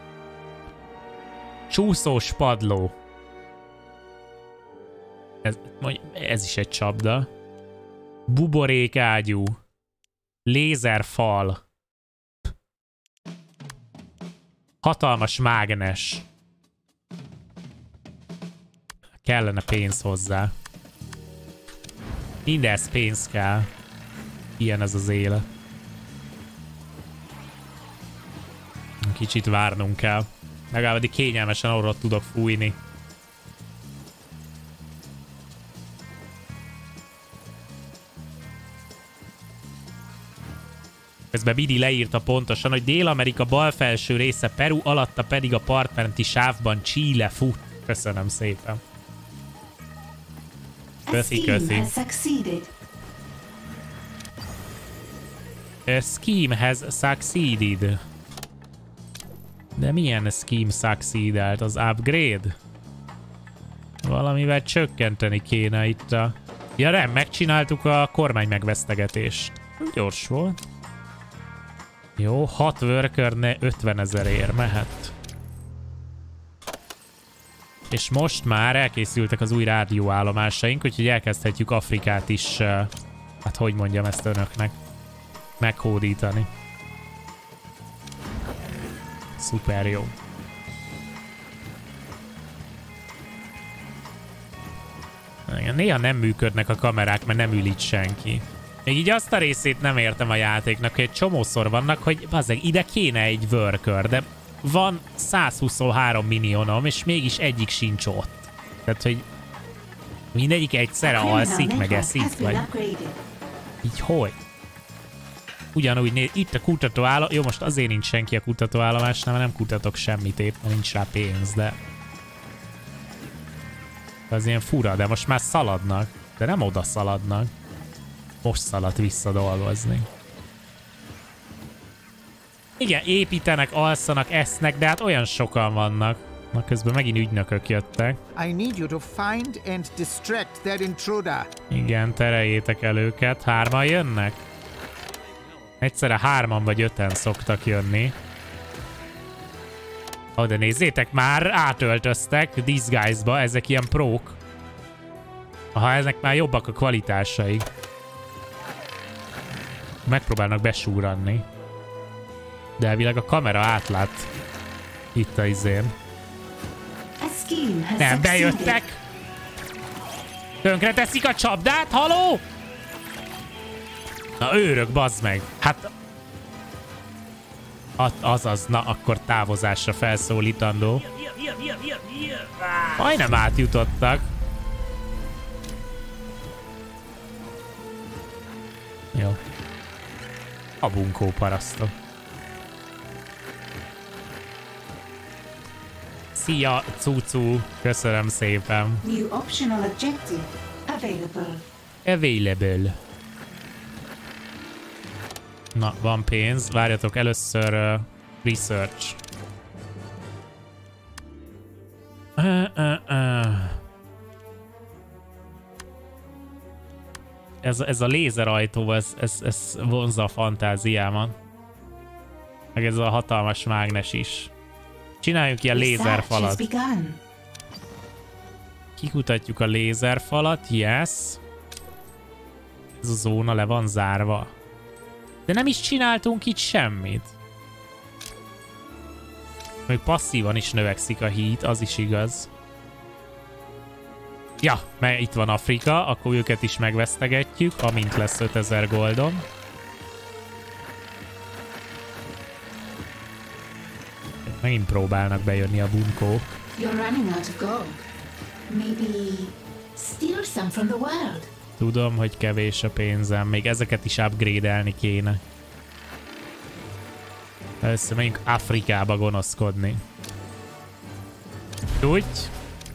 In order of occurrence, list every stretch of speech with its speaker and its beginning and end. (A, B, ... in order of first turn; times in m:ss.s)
0:01.7-0:02.9 A
0:05.4-0:07.3 A
0:08.3-0:09.6 A
0:10.5-0:11.6 A
0:14.8-0:16.2 A
0:19.2-0:20.5 A
0:22.4-0:23.7 A
0:24.6-0:25.5 A
0:29.0-0:32.8 A
0:41.3-0:48.8 A
0:51.1-0:52.7 B
0:51.1-0:51.9 A
0:55.9-0:58.0 A
0:59.8-1:02.6 A
1:04.0-1:10.6 A
1:12.2-1:15.1 A
1:17.9-1:22.9 A
1:23.4-1:24.8 A
1:25.6-1:26.5 A
1:29.4-1:30.2 A
1:35.5-1:49.2 A
1:50.3-1:52.7 A
1:51.0-1:53.2 B
1:53.8-1:54.4 A
1:55.7-2:01.8 A
2:04.3-2:07.5 A
2:08.4-2:10.1 A
2:12.8-2:18.2 A
2:18.4-2:21.5 C
2:21.7-2:24.4 A
2:25.8-2:28.2 A
2:30.4-2:34.4 A
2:35.7-2:37.7 A
2:40.0-2:41.5 A
2:42.8-2:44.3 A
2:45.1-2:45.9 A
2:47.2-2:48.8 B
2:48.0-2:49.0 A
2:50.6-2:52.4 A
2:54.4-2:55.9 A
2:58.0-3:01.1 A
3:02.9-3:04.3 A
3:09.1-3:09.4 A
3:10.8-3:11.9 A
3:16.4-3:19.0 A
3:19.0-3:21.7 B
3:22.0-3:23.0 A
3:25.8-3:29.2 A
3:32.4-3:33.8 A
3:37.6-3:41.4 A
3:42.8-3:44.5 A
3:45.2-3:46.6 A
3:45.7-3:47.2 B
3:49.0-3:51.4 A
3:53.0-3:54.5 A
3:55.5-3:57.3 A
3:59.9-4:02.5 A
4:04.6-4:09.4 A
4:14.5-4:16.5 A
4:16.8-4:18.0 B
4:18.7-4:21.5 B
4:21.8-4:25.4 A
4:27.8-4:30.0 A
4:32.0-4:32.5 A